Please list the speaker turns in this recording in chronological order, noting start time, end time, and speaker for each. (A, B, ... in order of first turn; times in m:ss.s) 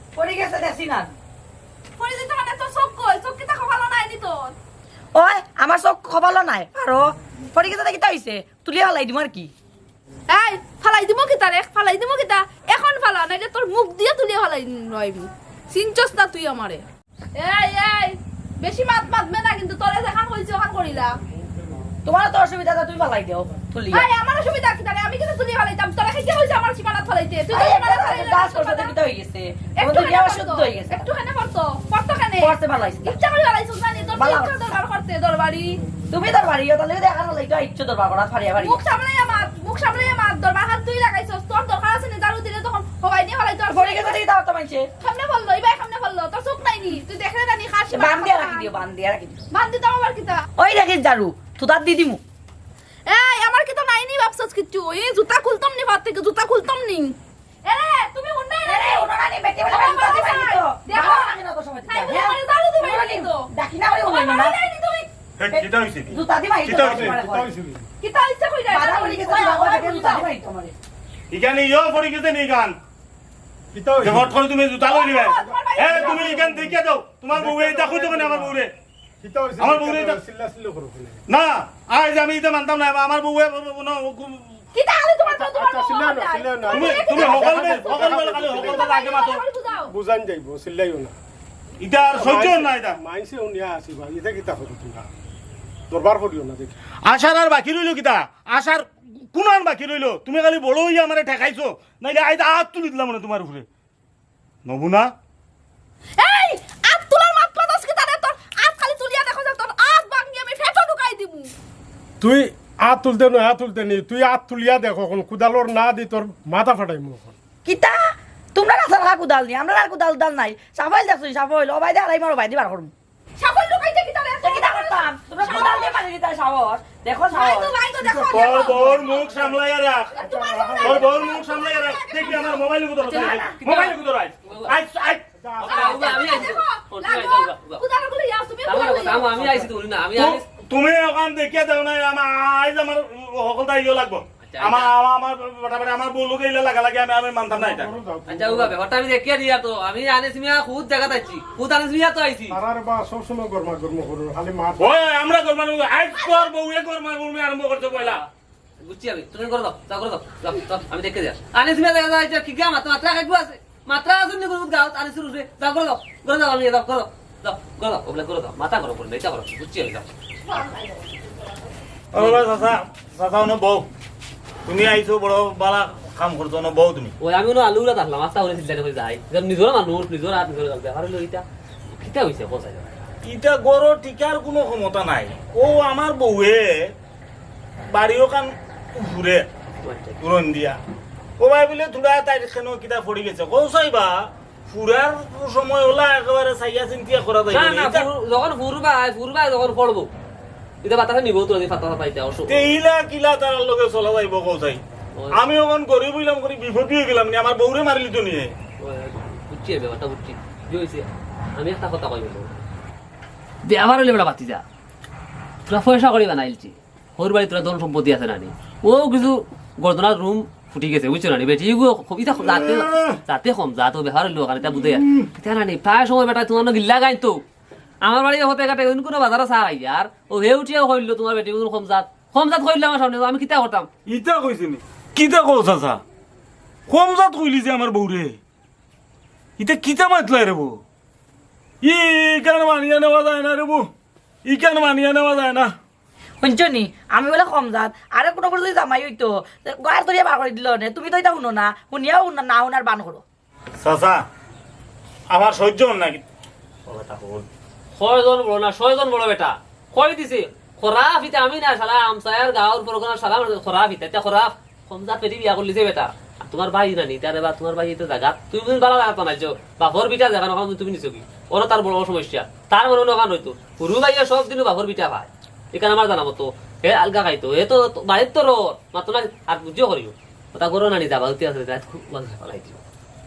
0:00.2-0:01.1 A
0:02.0-0:04.6 B
0:05.2-0:09.5 A
0:10.3-0:16.8 B
0:17.4-0:21.2 B
0:22.1-0:24.1 A
0:23.9-0:28.9 B
0:27.5-0:31.1 A
0:29.8-0:35.8 B
0:32.4-0:33.2 A
0:34.2-0:34.6 A
0:36.0-0:38.8 A
0:38.6-0:44.2 B
0:43.7-0:44.9 A
0:45.0-0:48.7 B
0:47.9-0:49.5 A
0:49.5-0:50.5 B
0:50.6-0:52.2 A
0:53.1-0:59.1 B
0:58.6-1:04.6 A
0:59.7-1:03.5 B
1:04.0-1:05.1 B
1:05.4-1:07.1 C
1:05.5-1:07.5 A
1:06.8-1:07.9 D
1:08.0-1:10.3 B
1:08.7-1:10.7 A
1:11.3-1:12.8 C
1:13.7-1:14.4 D
1:14.0-1:18.7 C
1:14.8-1:16.4 B
1:15.2-1:16.8 D
1:17.3-1:18.6 D
1:19.2-1:21.2 D
1:19.6-1:20.2 C
1:21.3-1:24.6 C
1:24.7-1:27.8 B
1:25.2-1:29.0 D
1:26.6-1:29.4 C
1:28.7-1:29.9 B
1:29.9-1:31.1 D
1:31.8-1:33.0 C
1:32.2-1:35.1 D
1:35.9-1:36.8 D
1:37.1-1:43.7 C
1:44.6-1:45.1 C
1:46.2-1:51.5 B
1:52.2-1:57.4 D
1:57.6-2:02.9 A
2:03.4-2:06.0 B
2:04.4-2:07.7 A
2:07.3-2:09.6 B
2:08.0-2:16.3 C
2:08.0-2:09.0 D
2:10.2-2:13.4 B
2:10.2-2:11.1 D
2:10.7-2:11.0 A
2:13.0-2:13.6 A
2:13.6-2:14.8 E
2:15.4-2:16.5 D
2:15.6-2:17.8 E
2:15.6-2:19.4 B
2:18.7-2:20.4 E
2:20.2-2:27.9 C
2:24.4-2:24.9 E
2:27.5-2:28.8 D
2:28.3-2:32.6 E
2:32.5-2:35.0 D
2:34.8-2:38.2 C
2:37.8-2:38.3 E
2:38.8-2:50.1 E
2:52.1-2:53.9 C
2:52.1-2:52.5 E
2:54.6-2:57.1 C
2:57.2-3:02.9 E
3:03.2-3:06.9 C
3:07.9-3:09.5 C
3:09.8-3:10.2 E
3:10.2-3:10.8 C
3:11.4-3:18.1 C
3:17.5-3:20.1 E
3:20.8-3:22.8 E
3:22.5-3:24.8 C
3:25.4-3:28.5 C
3:28.8-3:32.6 E
3:33.6-3:34.6 E
3:35.7-3:47.4 E
3:42.4-3:43.2 C
3:44.7-3:45.3 C
3:48.0-3:53.9 E
3:54.1-3:56.0 C
3:56.9-3:58.4 C
3:59.6-4:00.8 C
4:01.8-4:03.9 C
4:04.5-4:05.7 C
4:06.4-4:13.2 A
4:13.8-4:14.2 C
4:15.3-4:16.2 C
4:16.9-4:42.8 E